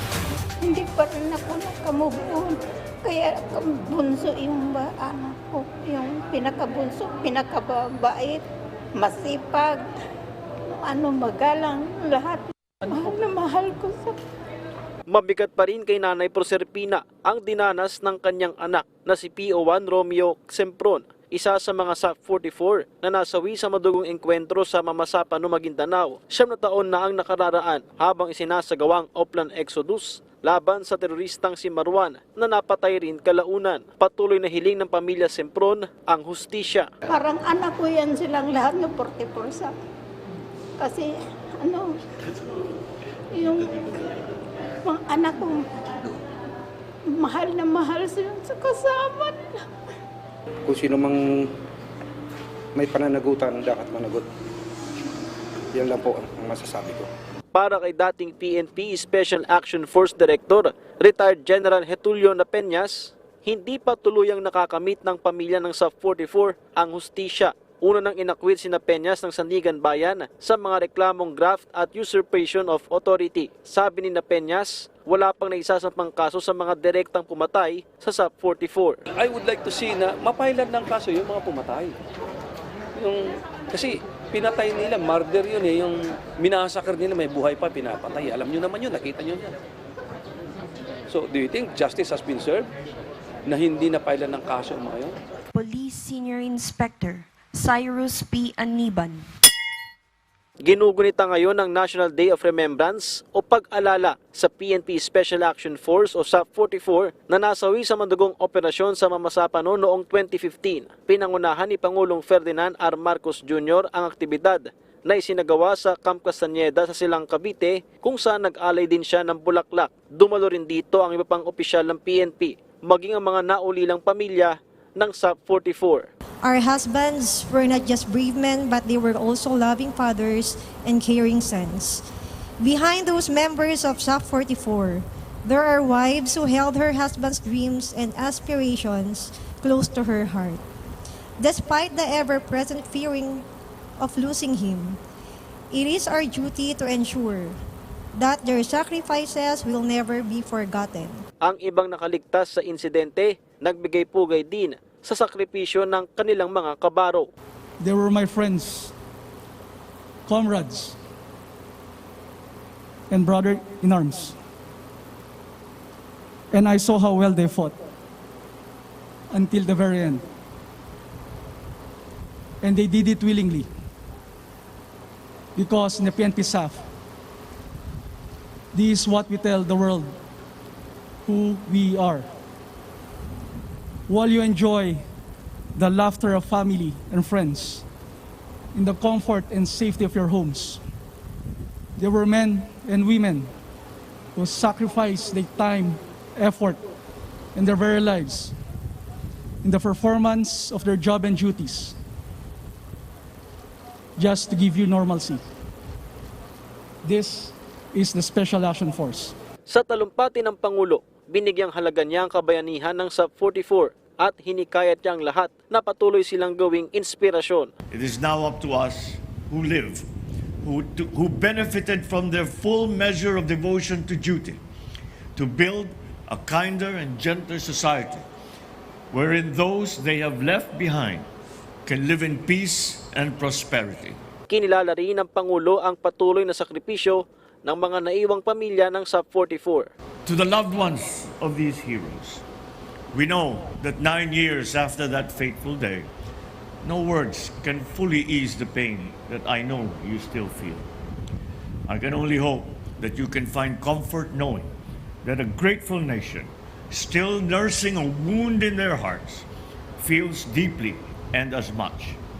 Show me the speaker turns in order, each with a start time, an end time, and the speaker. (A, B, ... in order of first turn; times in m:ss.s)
0:00.6-0:08.4 A
0:09.0-0:09.8 A
0:10.7-0:14.2 A
0:15.1-0:36.9 B
0:37.1-0:39.7 A
0:40.8-0:42.0 A
0:43.3-0:44.2 A
0:44.8-0:45.6 A
0:47.0-0:49.6 A
0:50.7-0:51.5 C
0:52.7-0:54.2 C
0:55.7-0:57.1 C
0:57.5-1:19.0 B
1:19.2-1:21.9 D
1:23.0-1:29.5 D
1:31.1-1:32.7 D
1:33.5-1:35.2 D
1:35.5-1:39.3 E
1:40.6-2:06.1 B
2:06.4-2:12.0 F
2:12.6-2:20.6 F
2:21.4-2:23.4 F
2:24.0-2:25.0 F
2:25.7-2:27.6 F
2:28.1-2:31.2 F
2:31.4-2:37.3 B
2:37.8-2:38.9 G
2:40.2-2:41.0 G
2:43.1-2:44.3 G
2:46.5-2:47.8 G
2:49.3-2:50.2 G
2:52.6-2:53.7 G
2:55.6-2:56.8 G
2:58.7-3:00.2 G
3:01.2-3:02.2 G
3:04.1-3:05.0 G
3:05.7-3:07.8 G
3:08.7-3:10.8 G
3:12.0-3:13.5 G
3:14.3-3:16.8 G
3:17.5-3:18.5 G
3:19.6-3:21.9 G
3:24.2-3:25.4 G
3:27.0-3:29.3 G
3:29.7-3:37.7 B
3:37.9-3:40.0 H
3:40.6-3:44.6 H
3:45.4-3:48.2 H
3:49.1-3:51.3 H
3:51.8-3:54.2 H
3:54.5-3:59.9 B
4:00.2-4:02.4 H
4:03.1-4:06.1 H
4:06.8-4:10.9 H
4:11.9-4:14.7 H
4:15.2-4:19.4 H
4:20.0-4:22.2 H